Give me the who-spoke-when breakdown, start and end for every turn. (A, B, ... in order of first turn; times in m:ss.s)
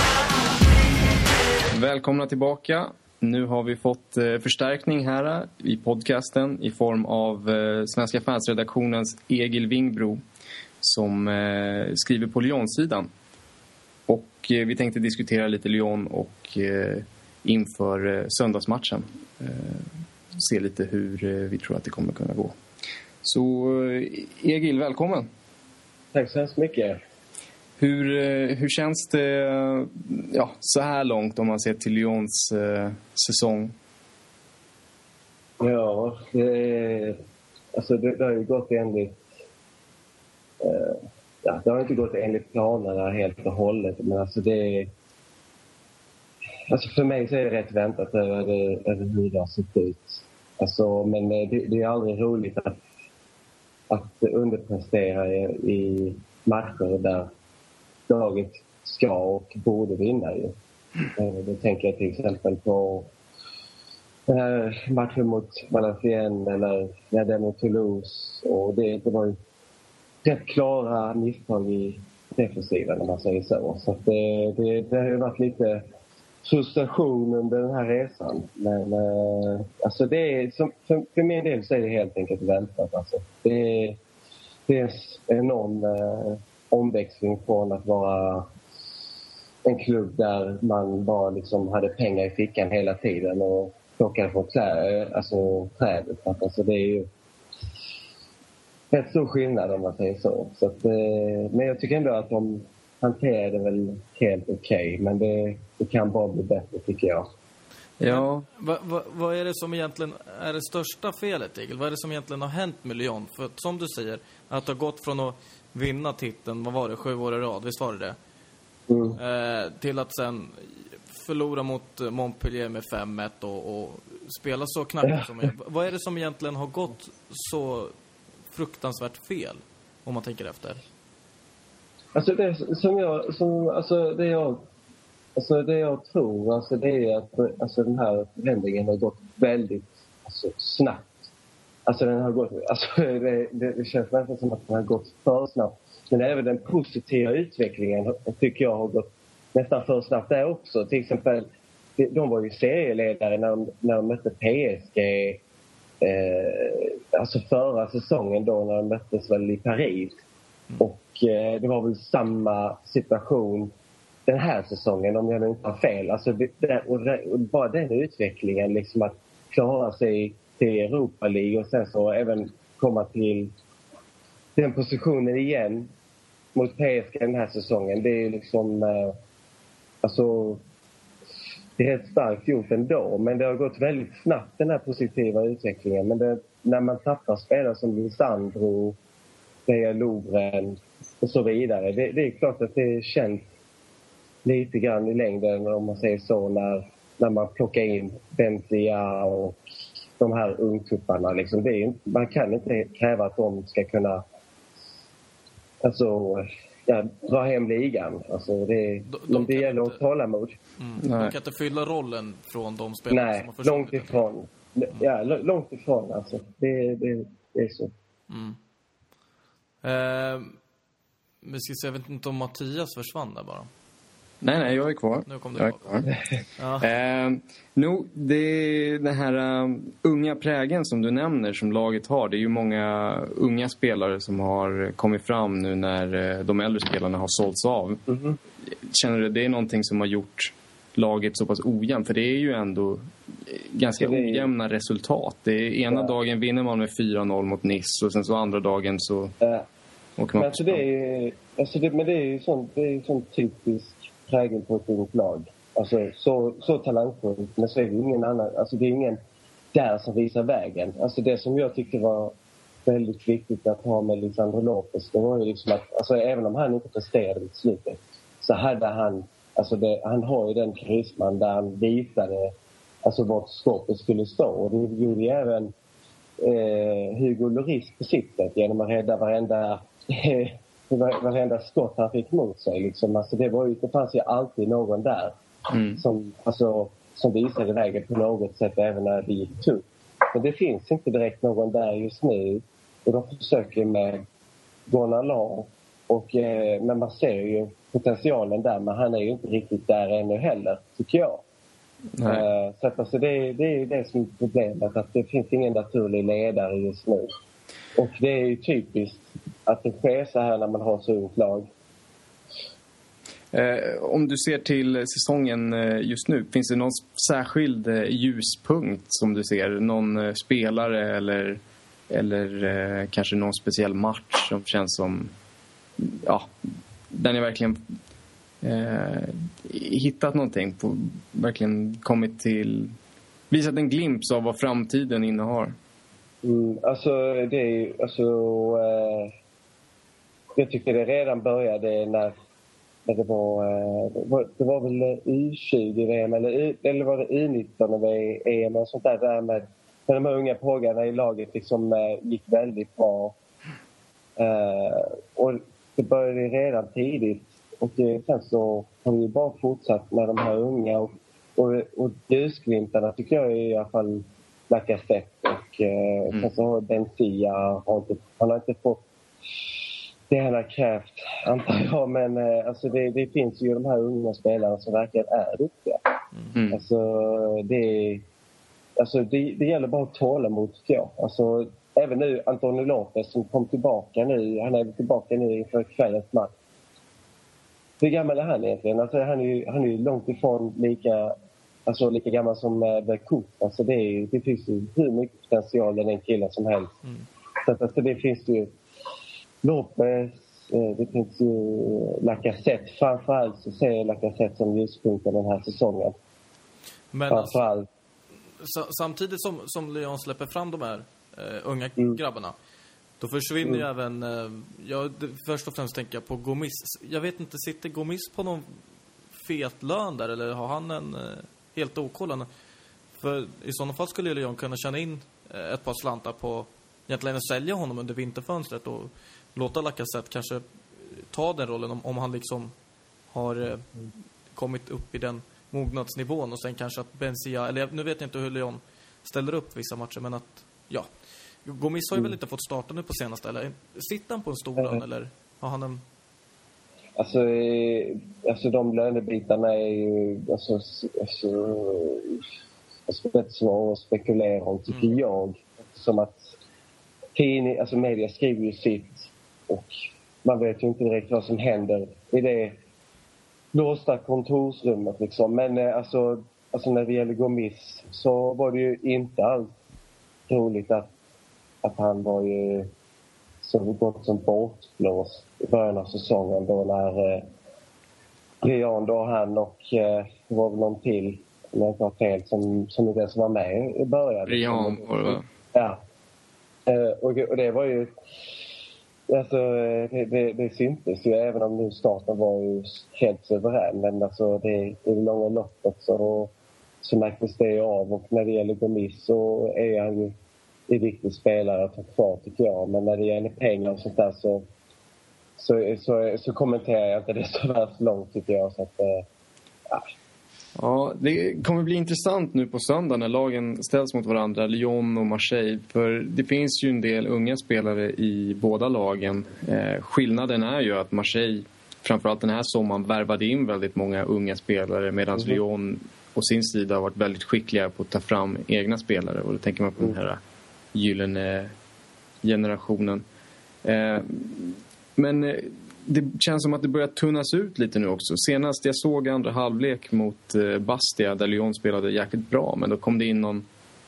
0:01.7-0:10.2 A
0:10.8-0:13.1 A
0:14.1-0:22.6 A
0:23.2-0:25.3 A
0:26.1-0:27.0 B
0:27.8-0:33.7 A
0:35.6-0:37.2 B
0:37.7-0:39.2 B
0:40.6-0:44.9 B
0:46.7-0:52.8 B
0:53.9-0:57.3 B
0:58.1-1:00.5 B
1:01.1-1:03.1 B
1:04.3-1:09.4 B
1:10.2-1:15.9 B
1:16.4-1:24.0 B
1:24.7-1:28.5 B
1:29.6-1:37.1 B
1:38.9-1:47.3 B
1:48.0-1:48.4 A
1:48.0-1:58.2 C
1:58.9-1:59.2 B
1:59.2-2:07.9 C
2:08.5-2:10.8 C
2:12.1-2:14.6 B
2:15.4-2:21.1 B
2:21.8-2:31.4 B
2:32.0-2:35.4 B
2:36.0-2:40.2 B
2:40.8-2:43.7 B
2:44.3-2:53.5 B
2:54.6-2:55.9 B
2:56.5-2:59.2 B
3:00.0-3:00.6 B
3:01.8-3:09.0 B
3:09.7-3:13.4 B
3:14.4-3:19.6 B
3:20.2-3:24.2 B
3:25.8-3:30.6 B
3:29.1-3:30.0 C
3:30.8-3:34.2 C
3:31.0-3:31.3 A
3:33.1-3:37.9 B
3:38.3-3:38.6 C
3:39.8-3:40.6 C
3:41.4-3:43.7 C
3:44.4-3:46.1 A
3:45.3-3:46.0 C
3:46.6-3:46.9 C
3:46.8-3:58.0 A
3:58.1-3:58.4 B
3:58.6-4:09.3 A
4:04.0-4:04.5 B
4:05.9-4:06.1 B
4:09.4-4:09.6 B
4:10.2-4:10.8 A
4:10.4-4:19.2 B
4:19.7-4:22.3 B
4:22.8-4:32.5 B
4:33.0-4:35.7 B
4:36.4-4:45.4 B
4:45.7-4:46.0 A
4:46.0-4:54.2 B
4:54.9-5:01.4 B
5:02.2-5:02.4 A
5:02.2-5:07.3 B
5:08.0-5:11.7 B
5:13.5-5:25.3 A
5:26.0-5:26.5 A
5:27.1-5:27.8 A
5:28.6-5:32.9 A
5:33.5-5:35.8 A
5:36.4-5:39.3 B
5:40.6-5:42.3 B
5:43.0-5:53.4 B
5:54.4-6:09.0 B
6:10.3-6:16.0 B
6:16.5-6:16.8 A
6:16.7-6:18.2 B
6:19.0-6:26.5 B
6:28.0-6:31.3 B
6:31.8-6:36.9 B
6:37.6-6:38.8 B
6:39.6-6:46.2 B
6:47.1-6:47.6 C
6:47.3-6:47.9 B
6:48.6-6:52.5 C
6:53.2-6:58.7 C
6:59.4-7:02.5 C
7:03.1-7:12.7 C
7:13.3-7:13.8 C
7:14.5-7:21.1 C
7:21.6-7:26.0 C
7:27.2-7:32.4 B
7:33.1-7:36.5 B
7:37.3-7:39.9 B
7:40.4-7:42.8 B
7:43.7-7:49.7 B
7:50.5-7:51.1 B
7:51.8-7:52.9 B
7:53.6-7:57.4 B
7:58.6-8:06.0 B
8:04.4-8:05.4 A
8:06.8-8:08.1 B
8:09.3-8:16.5 B
8:17.0-8:20.3 B
8:20.9-8:24.6 B
8:25.6-8:29.2 B
8:30.8-8:50.4 A
8:50.9-8:51.7 A
8:52.4-8:53.2 A
8:53.8-9:03.6 A